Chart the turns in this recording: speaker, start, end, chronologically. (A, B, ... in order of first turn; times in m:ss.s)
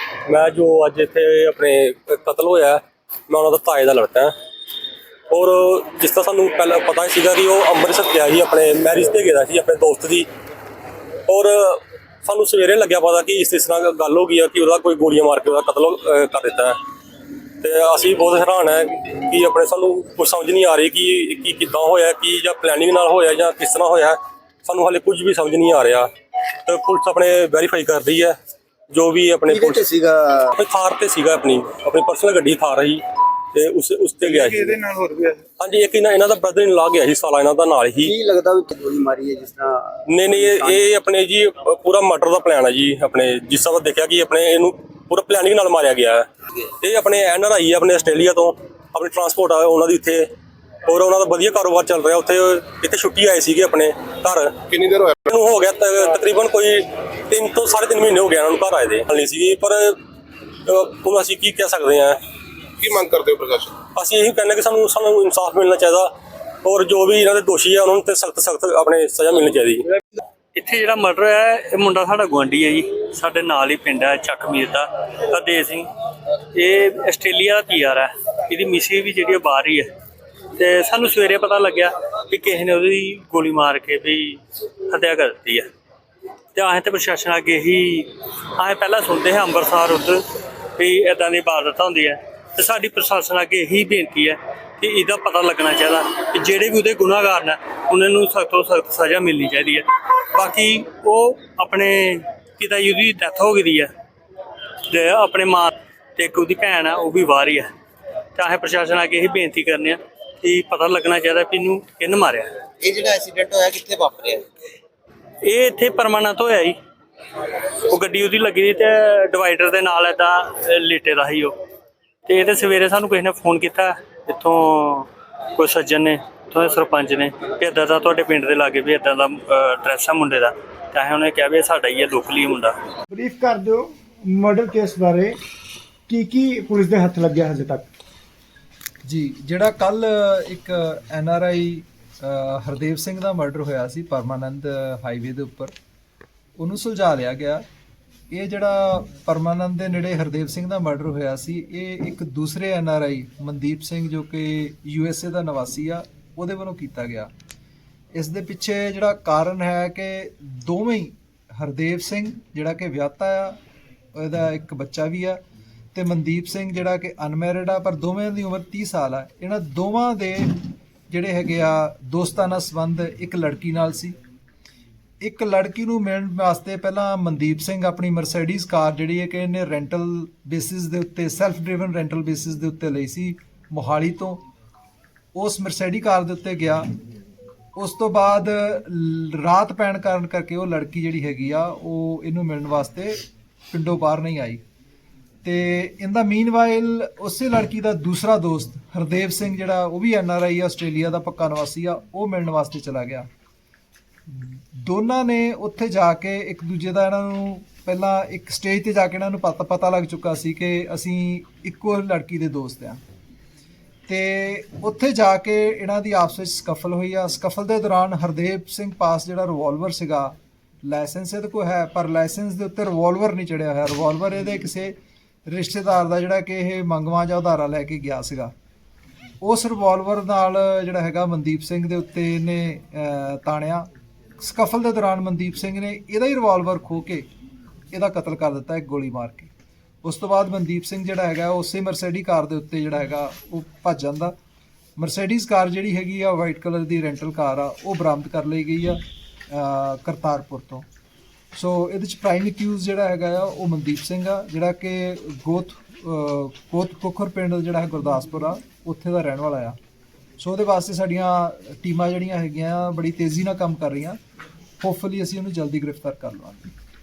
0:00.3-0:04.3 A
0:05.3-0:10.3 A
0:11.3-0:16.8 A
0:17.6-0:28.4 A
0:28.9-0:29.9 A
0:29.4-0:30.5 B
0:30.5-0:33.0 A
0:33.5-0:34.8 A
0:34.8-0:35.4 C
0:35.6-0:38.2 A
0:38.0-0:40.9 B
0:40.1-0:50.3 A
0:50.8-0:54.6 A
0:54.7-0:55.2 C
0:55.2-1:00.0 A
1:00.6-1:02.2 A
1:02.8-1:03.7 C
1:03.8-1:09.8 A
1:10.5-1:15.9 D
1:16.5-1:19.9 D
1:20.6-1:25.7 D
1:26.5-1:30.2 D
1:30.8-1:43.9 D
1:44.9-1:47.7 D
1:48.4-1:52.5 D
1:52.8-1:54.4 B
1:55.4-1:56.8 D
1:57.8-2:01.5 D
2:02.3-2:12.8 D
2:13.1-2:15.4 E
2:16.1-2:17.9 E
2:19.0-2:25.7 F
2:26.6-2:27.6 F
2:28.3-2:37.3 F
2:38.1-2:43.6 F
2:44.1-2:45.4 F
2:45.9-2:50.5 F
2:51.1-2:54.2 F
2:55.2-3:04.4 F
3:05.4-3:06.8 F
3:07.8-3:13.2 F
3:13.7-3:14.6 F
3:15.4-3:23.3 F
3:24.3-3:33.0 F
3:34.1-3:44.9 F
3:45.5-3:48.5 F
3:49.4-3:53.9 F
3:54.4-3:57.2 F
3:57.9-3:59.5 F
4:00.0-4:04.3 F
4:05.0-4:09.0 F
4:09.5-4:10.8 F
4:11.6-4:19.8 F
4:20.4-4:24.2 F
4:24.8-4:26.7 F